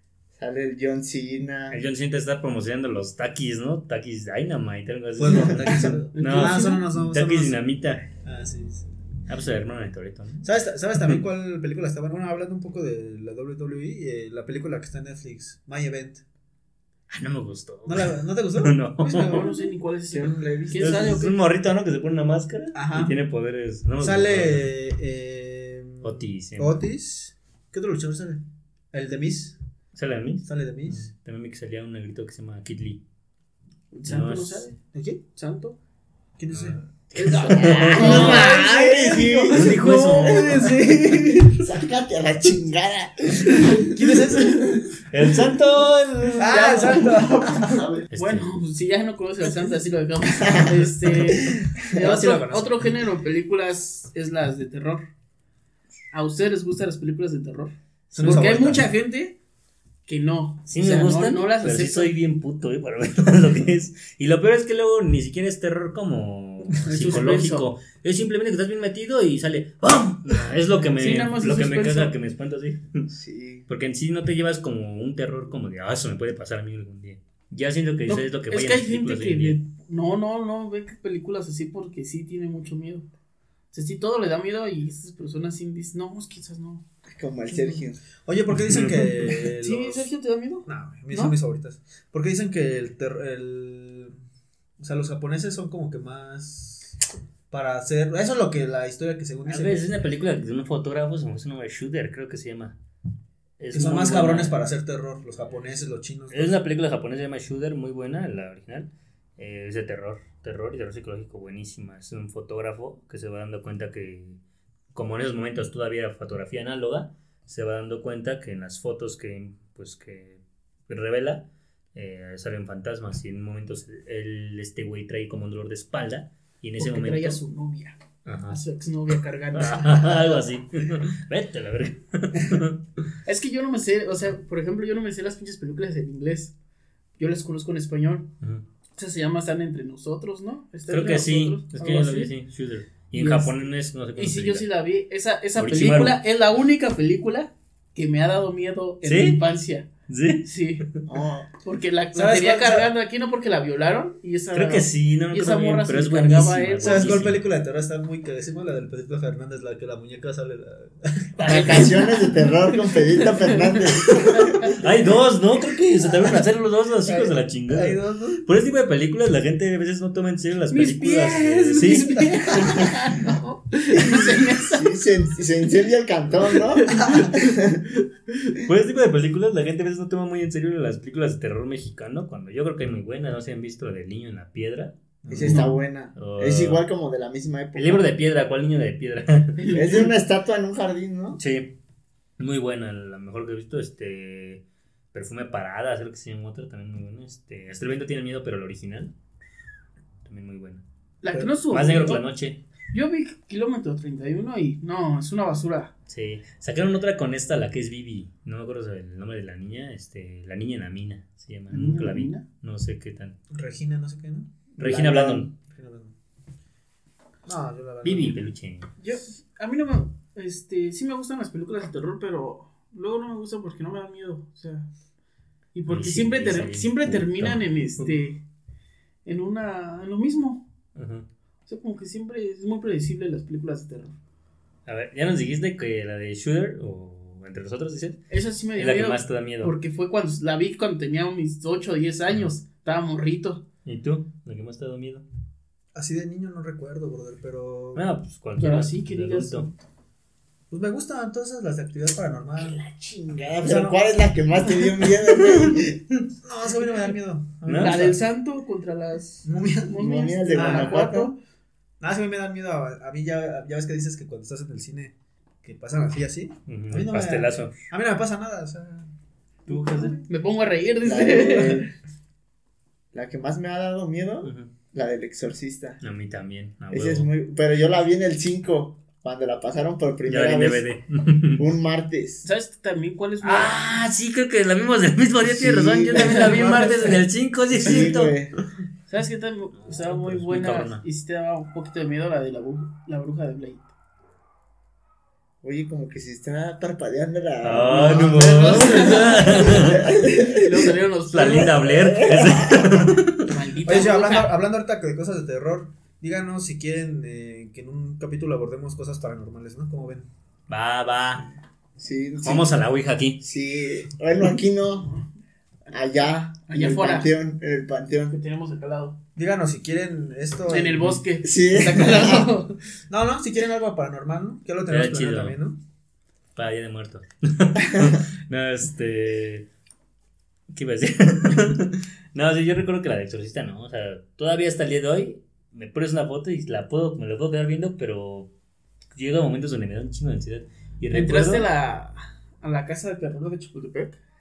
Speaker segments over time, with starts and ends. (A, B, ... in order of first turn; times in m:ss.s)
0:00.3-0:01.8 A
0:01.7-0:08.0 B
0:05.2-0:07.6 C
0:06.2-0:06.8 D
0:08.2-0:08.9 C
0:09.3-0:11.2 B
0:10.4-0:16.2 C
0:17.1-0:19.4 B
0:17.9-0:19.7 C
0:19.2-0:21.4 D
0:20.1-0:21.2 A
0:20.7-0:24.7 B
0:22.8-0:23.2 C
0:24.0-0:29.6 C
0:26.0-0:26.8 B
0:29.9-0:33.0 B
0:30.4-0:31.1 C
0:33.9-0:34.8 D
0:34.1-0:34.7 B
0:34.9-0:35.2 C
0:35.3-0:35.8 D
0:36.4-0:36.8 C
0:36.5-0:38.5 B
0:37.2-0:41.5 D
0:37.5-0:40.7 A
0:38.0-0:38.4 C
0:39.5-0:40.9 B
0:39.7-0:41.2 C
0:41.6-0:44.1 A
0:43.8-0:44.9 C
0:45.1-0:46.8 B
0:46.4-0:55.1 D
0:46.4-0:47.8 C
0:47.6-0:48.1 A
0:48.1-0:48.5 B
0:50.4-0:52.0 A
0:51.9-0:52.9 C
0:56.1-0:59.4 D
0:58.1-0:58.9 C
1:00.1-1:02.1 D
1:00.7-1:13.1 B
1:06.8-1:07.7 D
1:11.0-1:12.1 D
1:13.1-1:13.7 A
1:13.7-1:19.6 B
1:18.1-1:23.1 D
1:23.7-1:26.8 D
1:27.1-1:28.0 A
1:27.5-1:27.8 D
1:28.2-1:30.1 C
1:28.6-1:29.1 B
1:29.6-1:31.4 D
1:30.7-1:34.2 C
1:34.8-1:37.0 C
1:37.5-1:39.9 C
1:39.5-1:42.8 B
1:43.6-1:44.6 B
1:43.7-1:46.6 C
1:46.3-1:54.4 B
1:54.9-2:07.4 B
2:06.8-2:10.4 D
2:08.2-2:08.6 B
2:09.5-2:12.8 B
2:13.3-2:16.5 D
2:17.2-2:18.3 D
2:19.0-2:22.3 D
2:20.9-2:24.7 B
2:23.1-2:23.6 D
2:24.2-2:29.9 D
2:25.6-2:26.2 B
2:29.0-2:29.4 B
2:30.1-2:30.5 B
2:30.4-2:30.8 D
2:31.1-2:31.5 A
2:31.6-2:37.2 D
2:32.2-2:32.9 C
2:34.5-2:37.4 B
2:36.8-2:41.3 C
2:41.4-2:44.7 D
2:41.5-2:44.6 A
2:44.6-2:52.8 B
2:47.1-2:48.4 C
2:50.7-2:55.0 D
2:53.9-2:57.8 A
2:56.7-2:57.6 D
2:57.0-2:57.3 C
2:58.6-3:05.6 B
3:05.2-3:05.7 C
3:05.3-3:08.1 A
3:05.5-3:05.8 D
3:06.2-3:06.8 B
3:07.8-3:09.7 B
3:09.6-3:10.1 D
3:09.7-3:11.4 A
3:11.4-3:11.7 B
3:12.4-3:19.1 B
3:20.2-3:20.8 B
3:21.2-3:22.2 D
3:21.7-3:22.6 B
3:22.9-3:25.9 D
3:26.1-3:33.4 B
3:31.7-3:32.4 D
3:33.5-3:36.2 C
3:34.8-3:35.5 B
3:37.5-3:38.4 C
3:38.0-3:38.9 B
3:39.0-3:44.9 D
3:45.7-3:48.4 D
3:45.9-3:48.1 B
3:49.2-3:50.6 D
3:51.0-3:51.3 B
3:51.7-3:54.2 D
3:54.9-3:58.2 B
3:58.3-4:03.6 D
3:58.8-3:59.8 B
4:03.8-4:05.2 B
4:05.9-4:08.0 C
4:08.0-4:09.7 B
4:08.6-4:09.7 D
4:10.7-4:12.8 C
4:12.6-4:16.0 A
4:13.6-4:14.0 C
4:15.3-4:16.2 B
4:16.4-4:18.2 C
4:17.6-4:18.2 B
4:17.8-4:21.4 D
4:19.4-4:20.0 C
4:20.0-4:21.3 A
4:20.5-4:21.0 C
4:22.0-4:29.1 C
4:26.7-4:27.7 B
4:29.7-4:30.2 B
4:29.7-4:30.2 C
4:30.3-4:31.8 D
4:31.0-4:31.9 A
4:33.1-4:36.0 A
4:34.4-4:34.7 B
4:36.0-4:37.3 B
4:36.9-4:40.8 A
4:40.3-4:41.6 B
4:41.6-4:42.5 A
4:42.4-4:43.8 D
4:43.4-4:48.4 B
4:45.4-4:46.9 A
4:46.2-4:47.1 D
4:47.7-4:48.6 A
4:49.1-4:53.9 D
4:49.8-4:51.0 B
4:55.6-5:00.9 A
4:57.6-5:00.1 B
4:58.0-5:01.8 D
5:01.3-5:03.5 B
5:01.4-5:03.2 A
5:03.4-5:04.6 D
5:03.8-5:10.3 C
5:10.7-5:11.5 B
5:12.0-5:12.8 A
5:12.4-5:13.4 B
5:13.4-5:15.1 A
5:15.9-5:18.4 A
5:16.7-5:17.3 D
5:18.3-5:19.2 D
5:19.4-5:21.1 C
5:20.7-5:22.8 D
5:21.4-5:22.5 A
5:23.1-5:25.8 C
5:24.9-5:25.6 B
5:26.6-5:29.7 B
5:30.7-5:38.5 B
5:39.1-5:41.7 B
5:41.1-5:44.2 D